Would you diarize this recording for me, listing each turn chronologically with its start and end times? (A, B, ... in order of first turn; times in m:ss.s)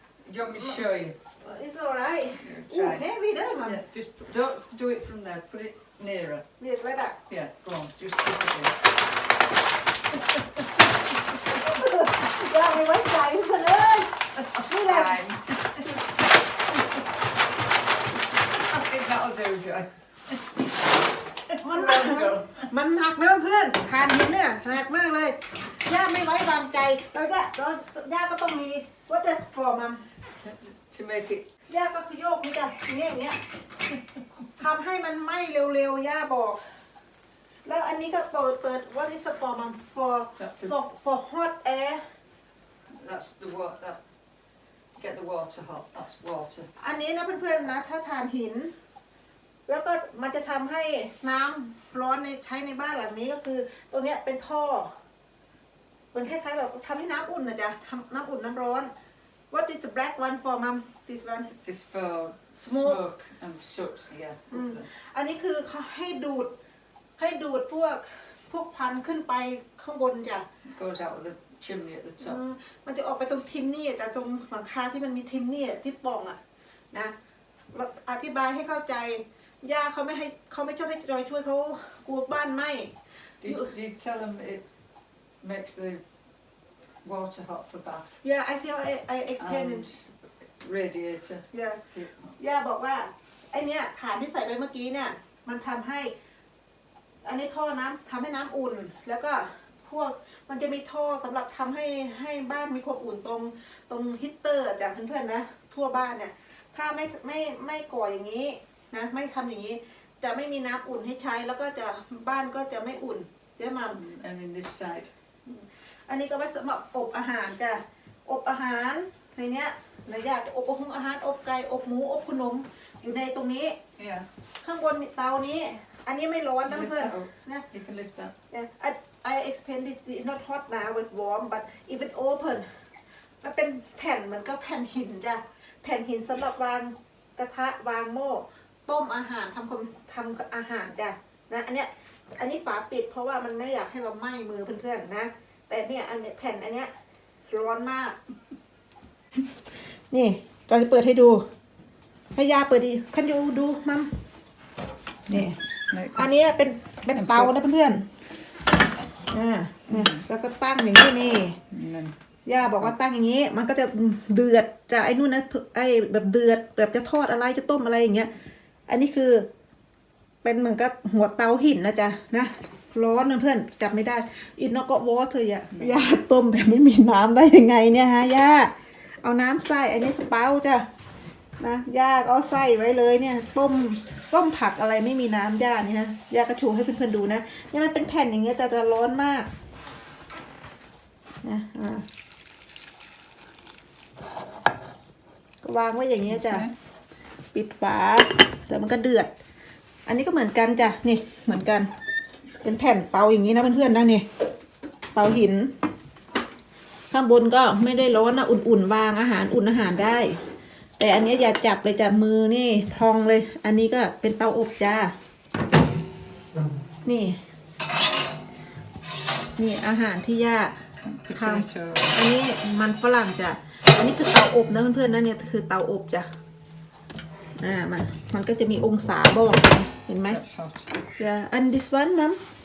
0:00.2-0:01.2 A
0:01.4-0:03.8 B
0:02.4-0:03.0 A
0:03.6-0:06.4 A
0:06.6-0:07.2 B
0:07.3-0:08.8 A
0:10.3-0:10.6 A
0:11.4-0:15.2 B
0:14.4-0:15.9 A
0:18.5-0:20.4 A
0:21.5-0:22.7 A
0:21.6-0:30.0 B
0:30.4-0:31.5 A
0:31.7-0:33.4 B
0:34.6-0:36.6 B
0:37.6-0:42.0 B
0:40.4-0:40.7 A
0:42.9-0:44.0 A
0:45.0-0:46.7 A
0:46.8-0:48.7 B
0:49.7-0:54.9 B
0:56.1-0:58.9 B
0:59.5-1:01.5 B
1:01.6-1:04.8 A
1:02.6-1:03.0 B
1:04.5-1:06.5 B
1:07.2-1:10.4 B
1:10.6-1:12.4 A
1:12.2-1:16.4 B
1:17.7-1:23.7 B
1:23.4-1:24.6 A
1:25.4-1:26.0 A
1:27.0-1:28.1 A
1:28.2-1:29.9 B
1:29.4-1:32.3 A
1:31.5-1:31.8 B
1:32.4-1:36.1 B
1:37.2-1:54.0 B
1:53.9-1:55.1 A
1:55.4-2:03.8 B
2:04.0-2:04.3 A
2:04.6-2:07.6 B
2:06.7-2:08.3 A
2:08.5-2:12.7 B
2:13.4-2:26.9 B
2:27.5-2:28.2 B
2:30.1-2:31.4 B
2:32.3-2:34.1 B
2:35.3-2:35.6 B
2:35.3-2:36.4 A
2:36.1-2:38.1 B
2:37.1-2:37.5 A
2:39.3-2:41.6 B
2:39.9-2:40.2 A
2:41.7-2:42.2 A
2:42.4-2:48.3 B
2:48.9-2:49.5 B
2:50.4-3:00.9 B
3:01.6-3:09.5 B
3:11.4-3:12.0 B
3:15.6-3:16.7 B
3:16.3-3:16.7 A
3:17.5-3:19.3 B
3:20.0-3:21.9 B
3:22.6-3:24.2 B
3:25.1-3:25.7 B
3:27.1-3:30.4 B
3:31.0-3:35.1 B
3:37.0-3:37.4 B
3:39.6-3:40.8 B
3:41.0-3:42.2 A
3:41.3-3:46.3 B
3:47.6-3:50.4 B
3:50.3-3:50.9 A
3:51.2-3:52.4 B